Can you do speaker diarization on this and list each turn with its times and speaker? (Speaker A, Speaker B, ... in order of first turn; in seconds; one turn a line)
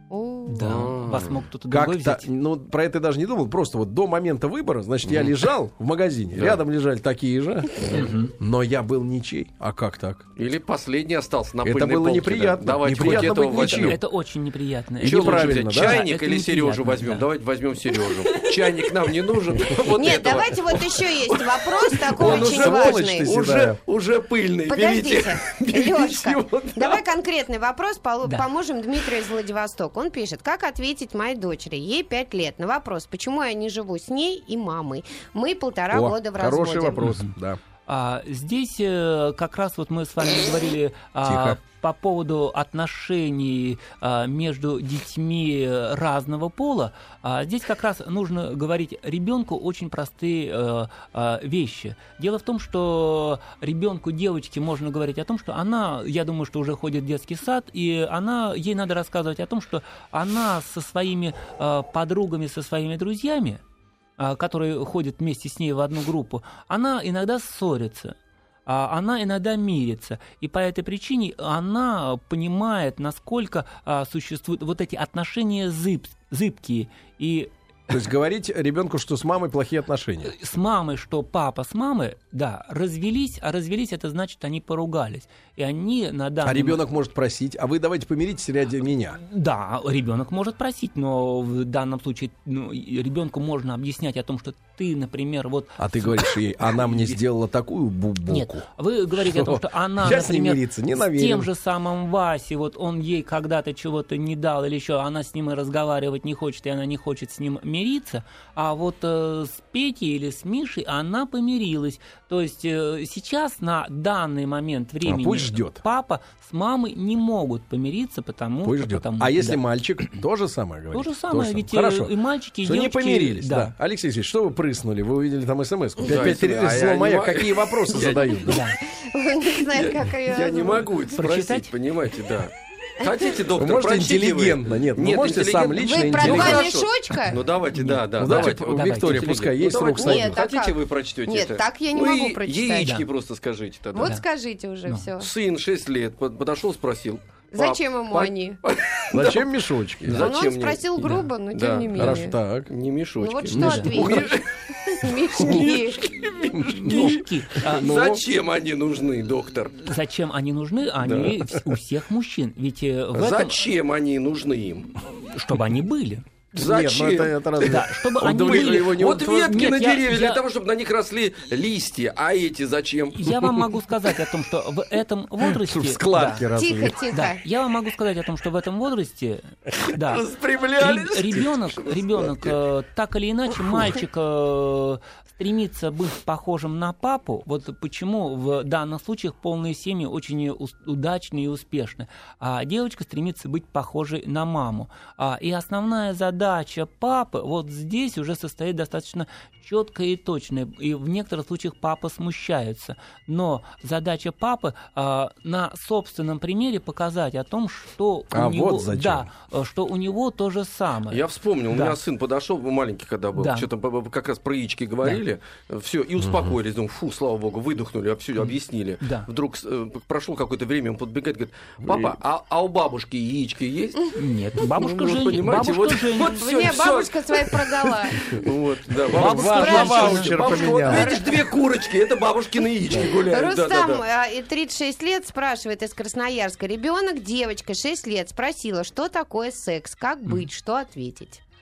Speaker A: 0.1-0.9
Speaker B: 0.5-2.3
Speaker C: 0.6-1.4
Speaker D: 1.7-10.3
Speaker C: 5.1-5.4
Speaker C: 6.3-6.6
Speaker B: 7.9-8.3
Speaker C: 10.4-14.0
Speaker D: 11.6-14.0
Speaker B: 13.0-17.3
Speaker D: 15.0-16.0
Speaker C: 15.0-27.1
Speaker A: 19.8-23.3
Speaker D: 22.2-23.8
Speaker A: 24.7-37.0
Speaker D: 35.9-37.6
Speaker B: 37.0-37.3
Speaker B: 37.9-63.6
Speaker D: 41.2-41.6
Speaker B: 64.2-77.5
Speaker D: 77.9-80.3
Speaker B: 80.2-86.8
Speaker D: 86.4-89.2
Speaker B: 89.2-97.2
Speaker D: 95.8-101.5
Speaker B: 98.3-120.1
Speaker D: 115.1-115.8
Speaker D: 118.6-122.1
Speaker B: 120.9-123.7
Speaker D: 122.6-128.6
Speaker C: 126.0-128.6
Speaker B: 128.5-128.8
Speaker A: 128.9-130.9
Speaker C: 129.6-144.2
Speaker B: 131.1-131.7
Speaker A: 133.0-133.3
Speaker D: 133.5-136.7
Speaker A: 135.8-137.4
Speaker B: 137.7-139.2
Speaker D: 138.2-140.4
Speaker A: 140.0-142.9
Speaker B: 142.8-143.1
Speaker A: 143.9-145.3
Speaker C: 145.2-159.9
Speaker A: 147.6-148.6
Speaker D: 149.1-150.3
Speaker A: 150.1-152.3
Speaker B: 151.0-151.3
Speaker D: 151.9-152.7
Speaker A: 153.2-156.2
Speaker D: 153.5-154.3
Speaker D: 155.4-155.7
Speaker D: 156.5-158.2
Speaker B: 156.8-157.9
Speaker B: 159.8-163.6
Speaker C: 161.0-161.3
Speaker C: 163.1-165.0
Speaker B: 165.1-166.3
Speaker C: 166.5-167.8
Speaker D: 166.5-169.3
Speaker B: 167.6-170.4
Speaker C: 168.3-173.6
Speaker B: 173.1-176.5
Speaker D: 175.4-177.0
Speaker A: 176.5-177.4
Speaker B: 177.1-180.2
Speaker C: 180.0-181.9
Speaker B: 180.8-212.0
Speaker D: 208.3-209.3
Speaker C: 211.1-234.0
Speaker B: 213.4-213.7
Speaker B: 218.4-219.3
Speaker D: 221.8-222.2
Speaker B: 224.2-226.4
Speaker A: 226.2-228.4
Speaker D: 229.1-231.2
Speaker B: 229.1-231.1
Speaker A: 229.2-231.4
Speaker A: 232.9-241.4